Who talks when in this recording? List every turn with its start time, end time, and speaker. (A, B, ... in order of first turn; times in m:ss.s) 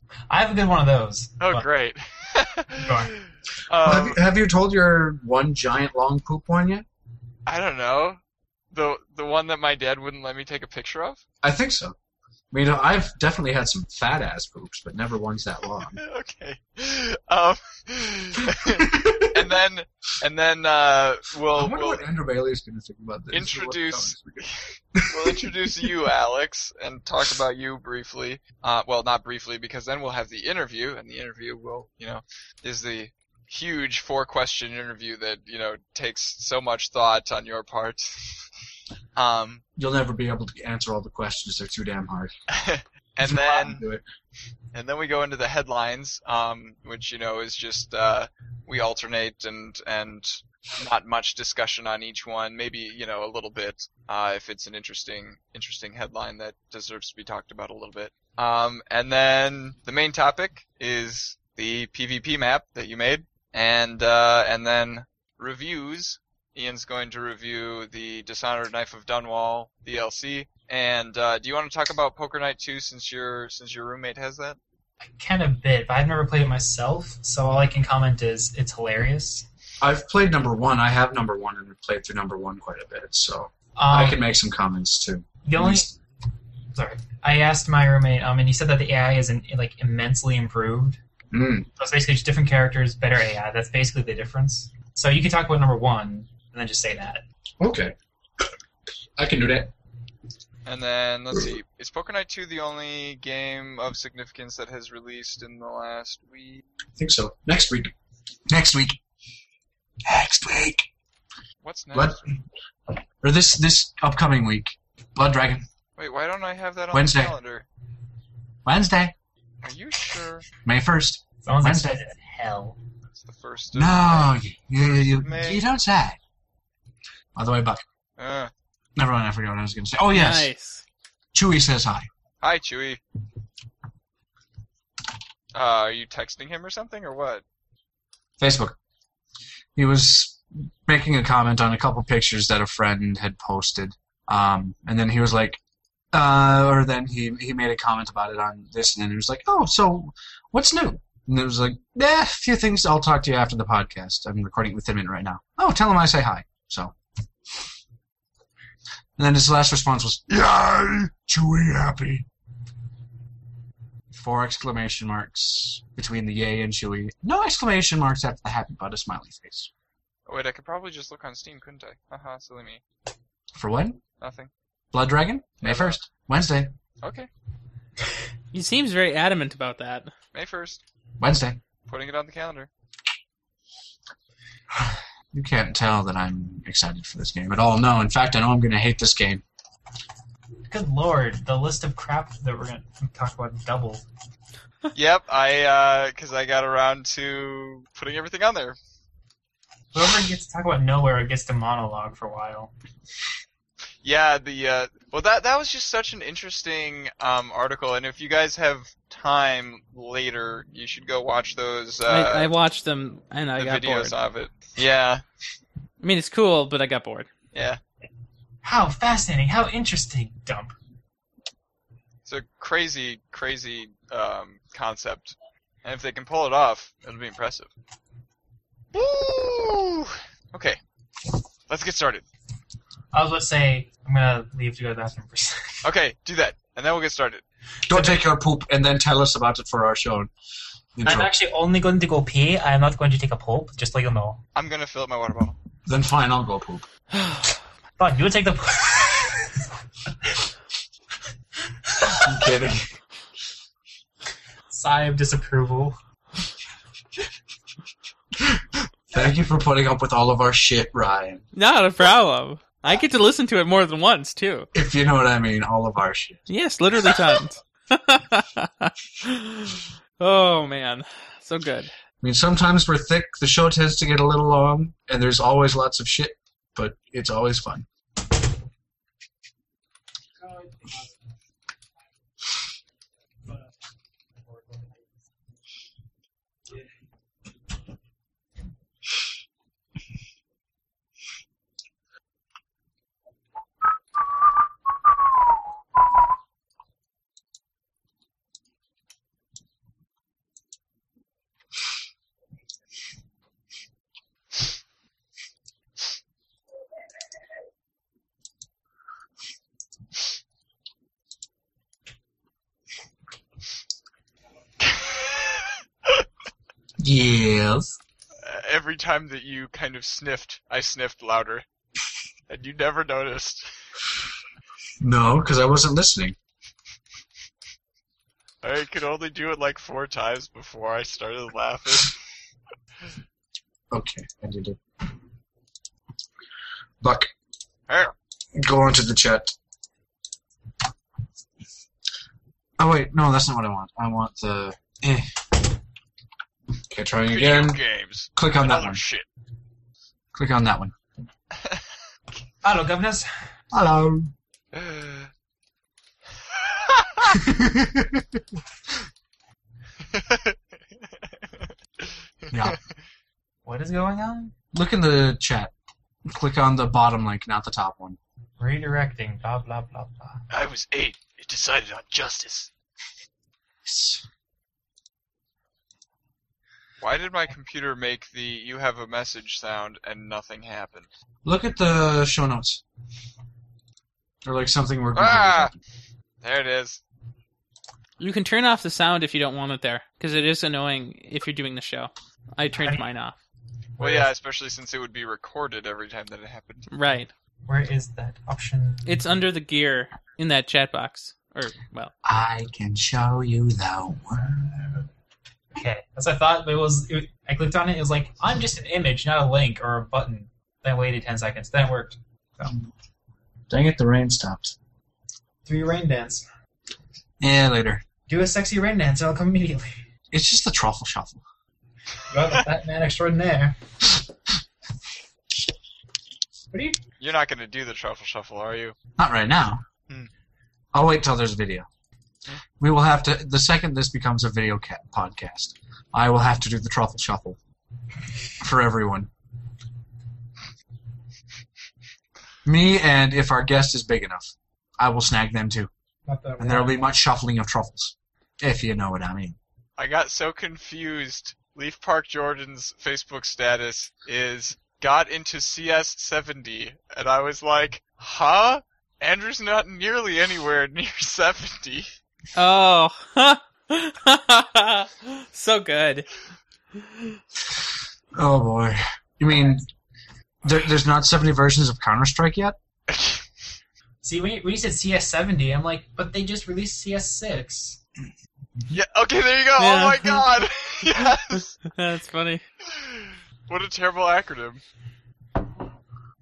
0:00.3-0:01.6 A
0:01.4-0:04.2 B
0:02.8-0:03.1 A
0:03.8-0:06.8 C
0:07.4-0:08.2 B
0:08.7-0:11.2 B
0:11.4-0:11.9 C
0:12.5-0:16.0 C
0:15.8-0:22.1 B
0:18.8-0:19.5 C
0:21.5-0:25.9 C
0:23.3-0:38.4 B
0:39.1-0:39.6 B
0:39.8-0:42.3 C
0:42.5-0:43.9 B
0:43.2-0:44.0 C
0:44.7-1:14.6 B
1:15.0-1:19.4 A
1:19.8-1:25.9 C
1:23.8-1:24.2 A
1:25.4-1:25.9 A
1:26.7-1:31.0 A
1:31.3-1:31.7 C
1:31.8-1:37.2 A
1:37.6-1:38.5 C
1:39.2-1:39.7 C
1:40.6-1:46.6 B
1:47.0-1:47.9 C
1:48.5-1:49.0 C
1:50.0-1:50.9 C
1:51.6-1:52.3 B
1:51.9-1:52.2 C
1:53.2-1:55.6 C
1:56.0-1:57.6 B
1:56.9-1:57.3 C
1:58.6-1:59.1 C
1:59.6-2:00.5 B
2:00.6-2:02.0 C
2:01.4-2:02.8 A
2:03.2-2:04.3 B
2:03.7-2:06.2 C
2:04.8-2:05.6 B
2:07.3-2:07.8 C
2:08.2-2:08.5 B
2:09.0-2:10.5 C
2:10.1-2:10.8 D
2:11.3-2:12.1 C
2:12.4-2:13.0 B
2:15.5-2:17.4 B
2:18.4-2:18.8 C
2:19.8-2:25.6 C
2:26.1-2:36.9 C
2:39.2-2:42.2 C
2:44.1-2:49.7 C
2:50.3-2:52.8 B
2:53.5-2:54.0 C
2:54.2-2:54.5 B
2:54.9-2:56.7 C
2:55.6-2:56.0 B
2:57.0-2:57.3 B
2:58.5-3:00.1 D
3:00.3-3:00.8 B
3:01.2-3:01.6 C
3:01.9-3:02.7 B
3:04.8-3:09.4 C
3:10.7-3:14.0 A
3:14.9-3:18.8 B
3:19.9-3:22.7 A
3:24.0-3:32.5 B
3:32.0-3:34.2 D
3:33.6-3:35.2 B
3:36.0-3:37.3 D
3:37.5-3:37.8 B
3:38.6-3:40.7 A
3:42.2-3:47.7 B
3:48.9-3:50.8 B
3:51.7-3:52.2 B
3:53.1-3:55.7 A
3:55.8-3:57.4 B
3:57.9-4:00.3 C
3:57.9-3:58.2 A
4:01.0-4:01.3 C
4:01.0-4:04.4 A
4:04.6-4:05.6 B
4:05.8-4:06.8 C
4:08.0-4:09.5 A
4:12.0-4:12.3 A
4:12.1-4:12.9 C
4:14.7-4:16.0 A
4:18.4-4:21.4 C
4:21.5-4:24.7 D
4:24.7-4:26.5 C
4:26.5-4:31.9 D
4:32.2-4:37.8 C
4:40.4-4:41.0 A
5:14.8-5:16.2 B
5:17.0-5:18.0 C
5:18.4-5:21.6 B
5:22.5-5:23.7 B
5:25.0-5:26.4 C
5:28.6-5:32.2 B
5:33.9-5:34.8 C
5:37.0-5:37.3 C
5:37.9-5:38.1 B
5:38.5-5:39.5 C
5:42.8-5:45.5 C
5:46.9-5:47.8 C
5:47.3-5:49.2 B
5:48.3-5:49.0 C
5:50.3-5:50.9 C
5:52.6-5:53.3 A
5:53.7-5:54.3 C
5:54.7-5:55.3 B
5:56.5-5:57.3 B
5:57.3-5:58.4 C
6:00.1-6:00.6 B
6:02.4-6:02.8 B
6:02.5-6:02.8 C
6:03.6-6:04.5 A
6:04.7-6:05.7 C
6:06.3-6:08.2 C
6:08.6-6:10.4 A
6:10.5-6:12.7 B
6:13.8-6:14.2 C
6:17.0-6:21.1 B
6:21.4-6:22.8 C
6:24.4-6:25.8 C
6:25.1-6:25.7 B
6:26.4-6:27.0 B
6:28.2-6:33.4 D
6:32.7-6:33.0 A
6:34.0-6:34.3 A
6:34.0-6:36.9 B
6:36.9-6:37.3 D
6:37.6-6:39.2 A
6:39.0-6:42.1 D
6:42.2-6:45.0 C
6:45.7-6:52.8 A
6:53.7-6:54.8 C
6:55.6-6:56.5 A
6:57.4-6:58.0 C
6:58.3-7:00.0 A
7:00.3-7:01.4 C
7:02.3-7:03.8 A
7:06.7-7:07.0 A
7:07.2-7:09.0 B
7:09.2-7:09.8 C
7:10.9-7:11.8 C
7:12.8-7:17.6 C
7:18.6-7:19.3 C
7:22.6-7:25.9 C
7:26.3-7:27.0 A
7:26.6-7:29.6 C
7:30.0-7:42.1 B
7:42.5-7:46.3 D
7:47.0-7:47.4 D
7:48.4-7:49.9 C
7:50.6-7:52.8 C
7:53.1-7:53.4 B
7:54.2-7:58.0 A
7:58.9-8:01.8 B
7:59.8-8:00.5 D
8:01.8-8:02.6 D
8:02.8-8:04.8 B